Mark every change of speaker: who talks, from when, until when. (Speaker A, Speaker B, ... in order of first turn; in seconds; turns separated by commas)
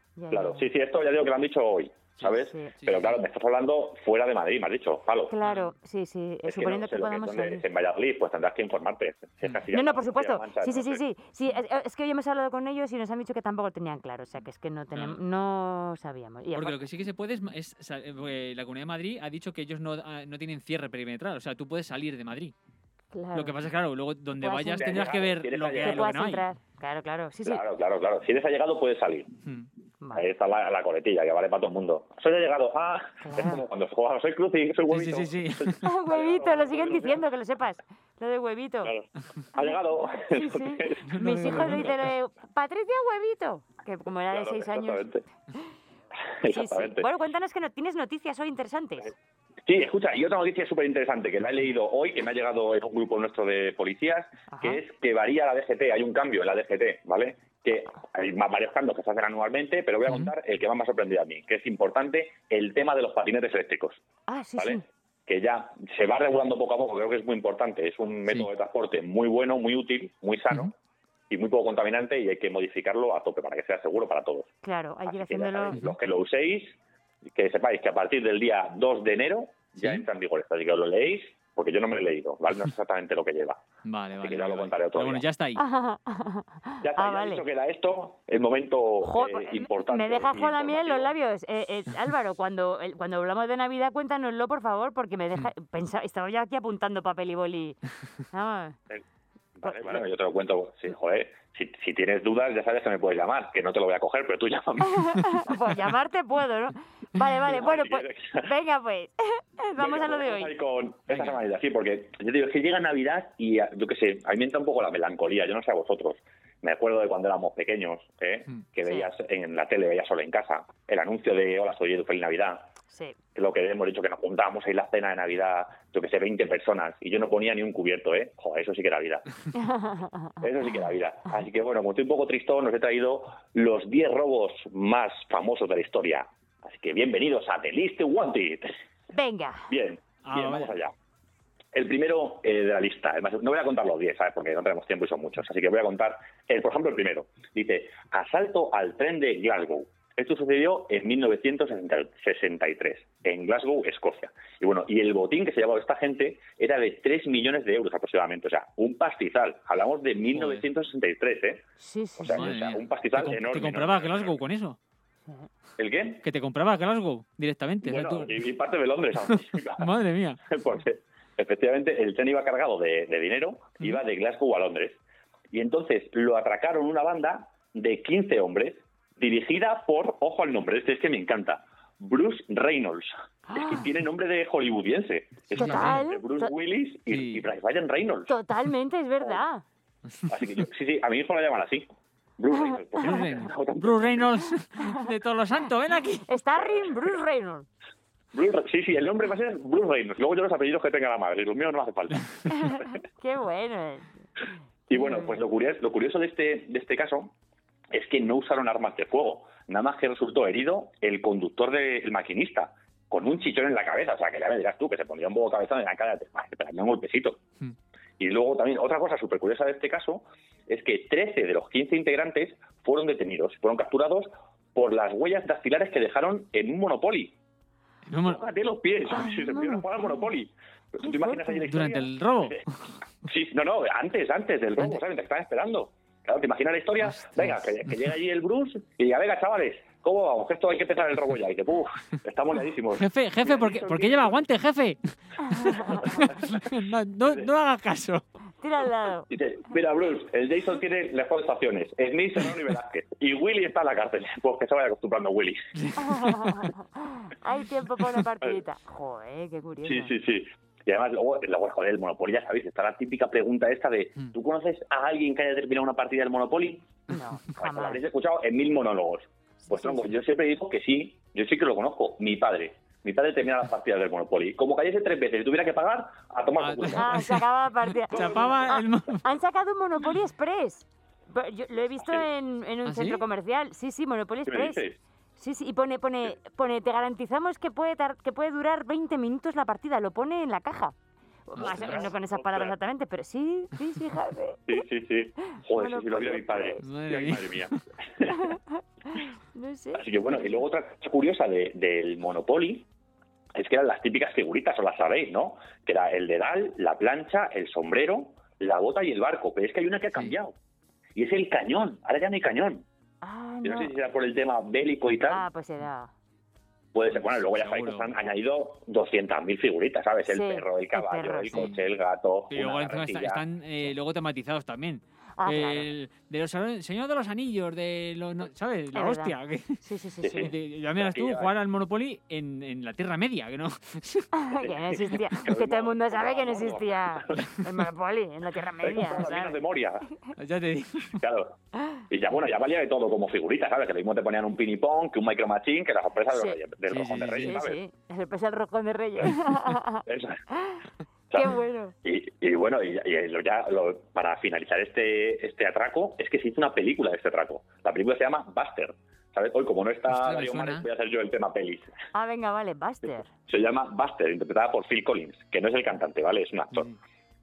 Speaker A: 0.2-0.7, Speaker B: 0.3-5.3, Speaker C: 2.1-3.2, Speaker A: 2.4-2.7, Speaker A: 5.3-7.7, Speaker C: 5.4-5.7, Speaker B: 6.5-11.0, Speaker A: 9.7-16.8, Speaker C: 14.9-15.2, Speaker C: 16.5-22.5, Speaker A: 23.1-23.6, Speaker C: 23.3-26.5, Speaker A: 24.4-25.2, Speaker B: 24.8-26.1, Speaker A: 25.8-27.6, Speaker B: 27.4-29.3, Speaker C: 29.4-29.7, Speaker A: 30.0-30.3, Speaker B: 30.1-37.2, Speaker A: 33.2-33.6, Speaker C: 34.9-35.8, Speaker A: 35.8-38.9, Speaker B: 38.8-41.0, Speaker A: 40.3-45.1, Speaker C: 41.0-42.1, Speaker B: 44.3-45.2, Speaker B: 46.4-47.0, Speaker A: 46.5-49.1, Speaker B: 49.7-64.0, Speaker A: 54.5-54.8, Speaker C: 60.1-60.3, Speaker A: 64.3-64.8, Speaker B: 64.6-70.7, Speaker B: 71.3-74.5, Speaker A: 74.6-75.8, Speaker B: 75.1-76.8, Speaker B: 77.3-83.6, Speaker C: 79.7-80.1, Speaker C: 83.8-85.6, Speaker B: 84.2-85.2, Speaker A: 85.6-87.5, Speaker B: 86.8-91.1, Speaker A: 89.0-97.8, Speaker A: 98.3-98.8, Speaker B: 99.6-104.9, Speaker A: 99.6-100.0, Speaker A: 104.8-110.5, Speaker B: 107.5-108.5, Speaker B: 109.8-122.7, Speaker C: 111.1-111.4, Speaker A: 118.8-119.1, Speaker A: 122.9-123.2, Speaker B: 123.3-129.2, Speaker A: 129.5-130.4, Speaker B: 130.4-138.7, Speaker A: 139.1-139.7, Speaker B: 139.7-140.9, Speaker C: 140.2-140.7, Speaker B: 141.7-161.7, Speaker C: 160.3-160.7, Speaker A: 161.8-162.5, Speaker B: 162.2-164.4, Speaker C: 162.3-164.8, Speaker B: 165.8-166.2, Speaker C: 166.2-168.4, Speaker B: 167.8-169.9, Speaker C: 169.3-170.4, Speaker B: 170.5-175.0, Speaker B: 175.5-188.3, Speaker A: 183.5-183.9, Speaker C: 185.5-186.0, Speaker A: 185.5-186.5, Speaker C: 187.1-187.5, Speaker A: 188.3-189.6, Speaker B: 190.3-194.3, Speaker A: 192.5-193.3, Speaker C: 193.0-196.3, Speaker A: 194.8-195.1, Speaker A: 196.3-197.7, Speaker B: 196.7-197.0, Speaker B: 198.3-202.3, Speaker A: 202.5-204.1, Speaker B: 204.9-207.3, Speaker A: 204.9-205.4, Speaker B: 207.9-217.4, Speaker B: 218.2-227.3, Speaker C: 228.1-228.4, Speaker B: 228.2-232.6, Speaker A: 229.1-230.3, Speaker A: 231.0-231.6, Speaker C: 231.7-233.0, Speaker B: 233.3-244.4, Speaker C: 237.0-238.0, Speaker C: 243.0-248.2, Speaker A: 245.4-246.0, Speaker B: 245.9-246.5, Speaker A: 248.6-249.3, Speaker B: 249.3-255.6, Speaker C: 255.8-256.7, Speaker A: 256.0-260.1, Speaker B: 259.8-266.9, Speaker A: 267.1-268.0, Speaker B: 267.6-277.1, Speaker A: 269.6-270.1, Speaker C: 276.6-279.2, Speaker A: 276.9-284.8, Speaker B: 278.1-278.6, Speaker C: 282.9-283.2, Speaker B: 284.5-285.0, Speaker A: 285.4-290.9, Speaker A: 291.5-294.9, Speaker C: 291.6-292.1, Speaker B: 291.6-292.8, Speaker B: 294.7-298.3, Speaker A: 295.5-296.8, Speaker C: 296.8-297.8, Speaker A: 298.3-300.6, Speaker B: 300.0-302.9, Speaker B: 303.6-310.5, Speaker B: 311.2-312.9, Speaker A: 313.2-313.9, Speaker B: 313.6-315.4, Speaker A: 315.2-316.1, Speaker B: 316.9-323.4, Speaker C: 317.1-318.2, Speaker A: 320.3-321.7, Speaker C: 321.5-321.9, Speaker C: 322.5-329.8, Speaker A: 325.4-325.9, Speaker A: 328.9-330.5, Speaker B: 330.2-331.5, Speaker C: 330.4-334.3, Speaker A: 334.4-339.6, Speaker B: 334.6-337.4, Speaker B: 338.8-340.0, Speaker C: 340.4-341.1, Speaker B: 341.2-341.6, Speaker B: 342.1-347.8, Speaker A: 346.3-346.6, Speaker C: 346.9-347.6, Speaker A: 347.4-350.8, Speaker B: 350.1-350.4, Speaker A: 351.3-351.9, Speaker B: 352.0-361.9, Speaker C: 360.1-360.9, Speaker A: 362.1-363.3, Speaker B: 363.5-366.9, Speaker C: 366.7-367.0